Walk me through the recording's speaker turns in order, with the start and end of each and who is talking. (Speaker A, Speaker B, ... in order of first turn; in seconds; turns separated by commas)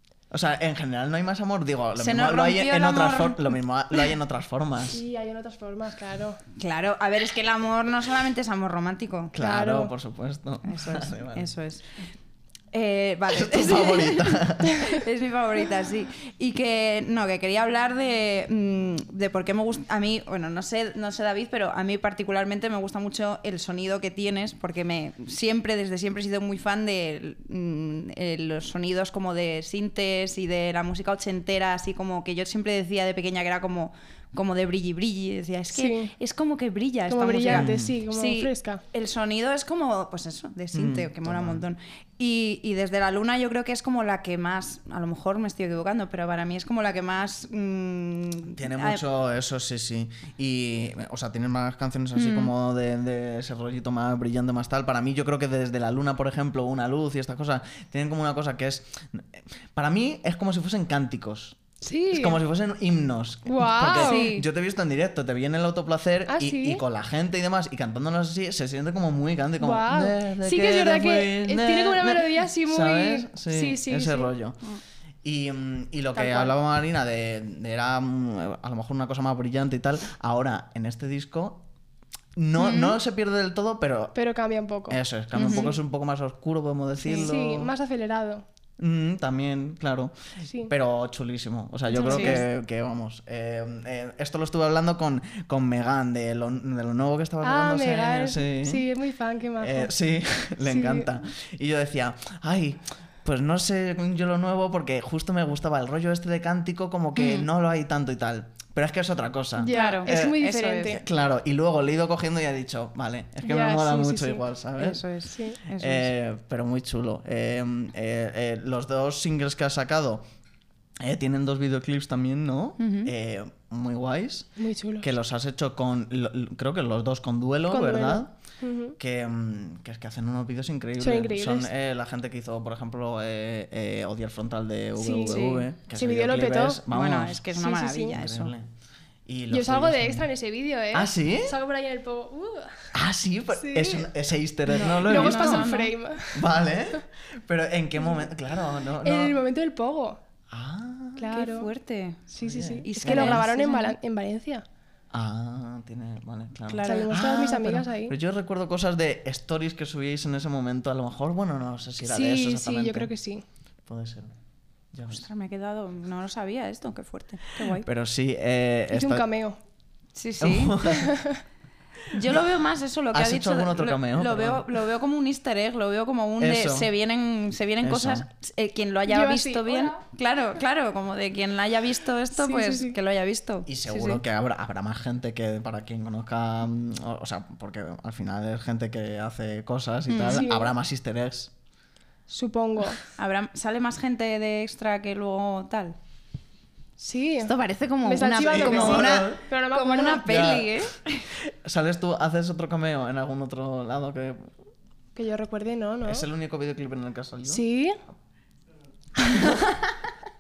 Speaker A: 0.3-5.0, Speaker B: 2.0-4.1, Speaker C: 4.9-6.4, Speaker B: 6.6-9.3, Speaker A: 9.3-11.5, Speaker C: 9.4-9.9, Speaker B: 10.6-11.8, Speaker B: 12.7-49.0, Speaker A: 13.3-14.9, Speaker C: 35.7-36.1, Speaker C: 37.1-38.8, Speaker A: 37.5-38.0, Speaker A: 40.7-41.6, Speaker A: 48.5-61.6, Speaker B: 52.1-52.5, Speaker C: 61.8-62.4, Speaker A: 62.1-74.6, Speaker C: 63.5-64.3, Speaker B: 63.9-64.5, Speaker C: 66.3-66.8, Speaker C: 69.6-74.3, Speaker A: 75.2-81.6, Speaker C: 76.2-76.5, Speaker A: 82.3-84.2, Speaker B: 82.6-83.0, Speaker C: 84.1-85.0, Speaker A: 84.9-87.7, Speaker B: 85.3-85.8, Speaker B: 87.0-87.3, Speaker C: 87.1-88.4, Speaker A: 88.8-98.8, Speaker C: 90.4-90.7, Speaker C: 91.9-92.4, Speaker B: 92.0-92.4, Speaker C: 97.4-99.9, Speaker A: 99.6-115.0, Speaker C: 100.7-101.1, Speaker B: 107.2-107.5, Speaker C: 109.6-111.0, Speaker B: 109.7-111.0, Speaker C: 113.4-114.4, Speaker B: 114.8-116.1, Speaker C: 115.3-115.6, Speaker A: 115.7-120.2, Speaker A: 121.0-124.5, Speaker B: 122.8-123.1, Speaker C: 124.6-125.0, Speaker A: 125.0-128.3, Speaker C: 127.7-129.0, Speaker A: 129.0-137.5, Speaker C: 131.0-131.7, Speaker C: 135.0-136.8, Speaker B: 135.3-135.6, Speaker B: 136.9-138.5, Speaker C: 137.5-138.2, Speaker A: 138.1-138.7, Speaker A: 139.2-140.3, Speaker C: 139.5-142.9, Speaker A: 140.9-141.6, Speaker A: 142.9-145.7, Speaker C: 143.6-144.1, Speaker B: 144.7-145.9, Speaker C: 144.7-146.4, Speaker A: 146.3-149.3, Speaker C: 149.0-150.2, Speaker A: 150.5-151.3, Speaker C: 151.2-151.7, Speaker B: 151.3-154.0, Speaker C: 152.3-154.6, Speaker A: 152.4-153.4, Speaker A: 155.1-163.1, Speaker B: 156.7-157.2, Speaker C: 156.8-158.1, Speaker C: 162.0-163.4, Speaker A: 163.8-164.3, Speaker A: 164.9-165.2, Speaker B: 165.1-167.9, Speaker A: 167.8-169.2, Speaker C: 168.9-169.6, Speaker B: 170.1-170.8, Speaker A: 170.4-171.1, Speaker C: 170.9-171.4, Speaker B: 172.1-184.2, Speaker A: 173.1-174.7, Speaker A: 176.4-176.9, Speaker A: 177.8-178.3, Speaker C: 179.1-180.0, Speaker C: 182.4-183.0, Speaker A: 183.7-191.5, Speaker B: 190.1-190.5, Speaker C: 190.2-190.7, Speaker C: 192.3-193.0, Speaker B: 193.2-196.0, Speaker C: 197.0-200.4, Speaker B: 197.4-201.2, Speaker A: 198.4-199.4, Speaker A: 200.2-200.9, Speaker A: 201.4-204.5, Speaker C: 205.1-206.2, Speaker A: 206.0-207.6, Speaker C: 207.4-208.0, Speaker A: 209.3-209.6